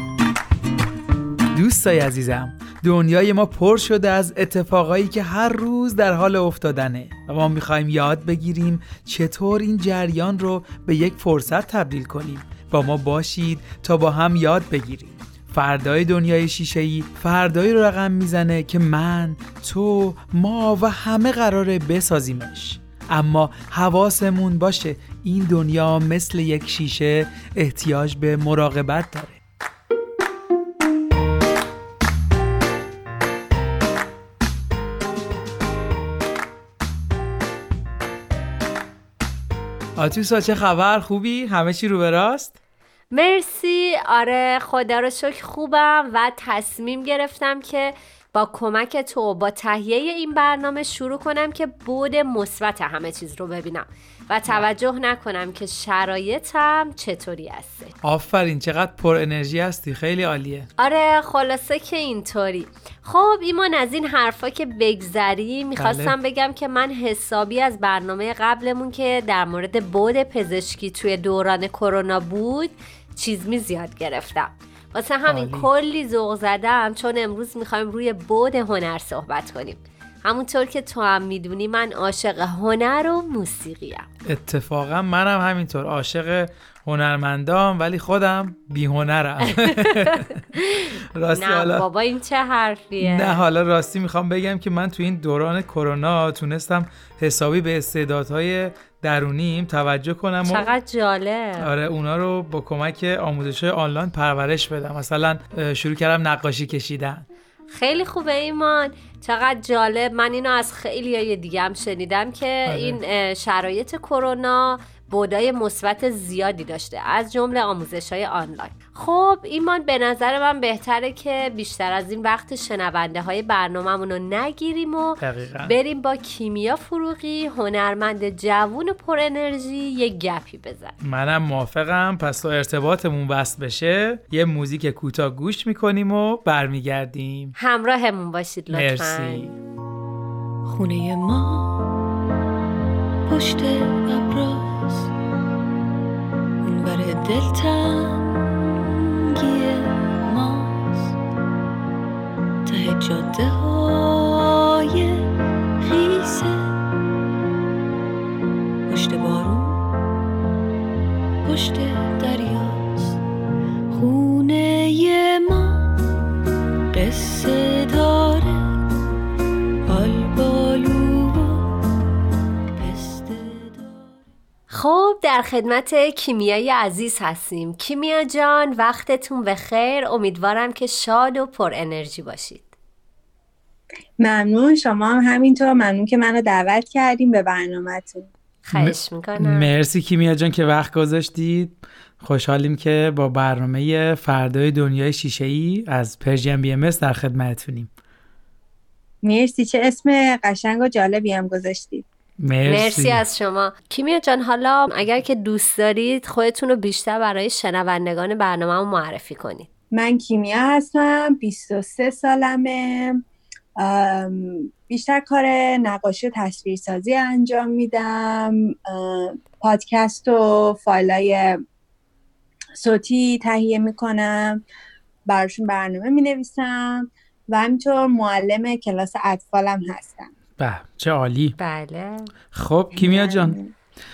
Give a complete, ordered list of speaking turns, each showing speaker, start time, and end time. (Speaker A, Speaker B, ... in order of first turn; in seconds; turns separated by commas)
Speaker A: 1.5-29.4, Speaker A: 40.0-42.5, Speaker B: 43.1-57.9, Speaker A: 58.0-60.7, Speaker B: 60.8-84.0, Speaker A: 65.8-66.1, Speaker A: 75.2-75.7, Speaker A: 84.2-90.4, Speaker B: 89.6-93.4, Speaker A: 91.1-91.8, Speaker A: 93.0-100.7, Speaker B: 100.4-101.7, Speaker A: 101.6-107.2, Speaker B: 107.7-130.9, Speaker A: 112.7-113.0, Speaker A: 125.2-125.7, Speaker A: 131.0-137.5, Speaker B: 137.6-139.5, Speaker A: 138.7-139.6, Speaker C: 140.7-141.9, Speaker C: 143.2-145.1, Speaker C: 146.6-151.2, Speaker C: 152.7-156.8, Speaker C: 158.9-159.9, Speaker C: 161.4-163.2, Speaker C: 163.9-166.1, Speaker C: 166.9-168.9, Speaker C: 169.8-171.9, Speaker C: 172.7-174.2, Speaker B: 174.7-182.7, Speaker D: 184.2-188.3, Speaker B: 188.7-189.7, Speaker A: 188.7-197.9, Speaker D: 199.2-202.0, Speaker A: 202.4-203.2, Speaker B: 202.6-209.7, Speaker D: 209.9-213.2, Speaker D: 213.8-221.6, Speaker D: 222.8-224.6, Speaker D: 225.2-230.3, Speaker A: 230.6-231.5, Speaker B: 231.6-232.3, Speaker A: 232.5-233.6, Speaker D: 232.9-233.7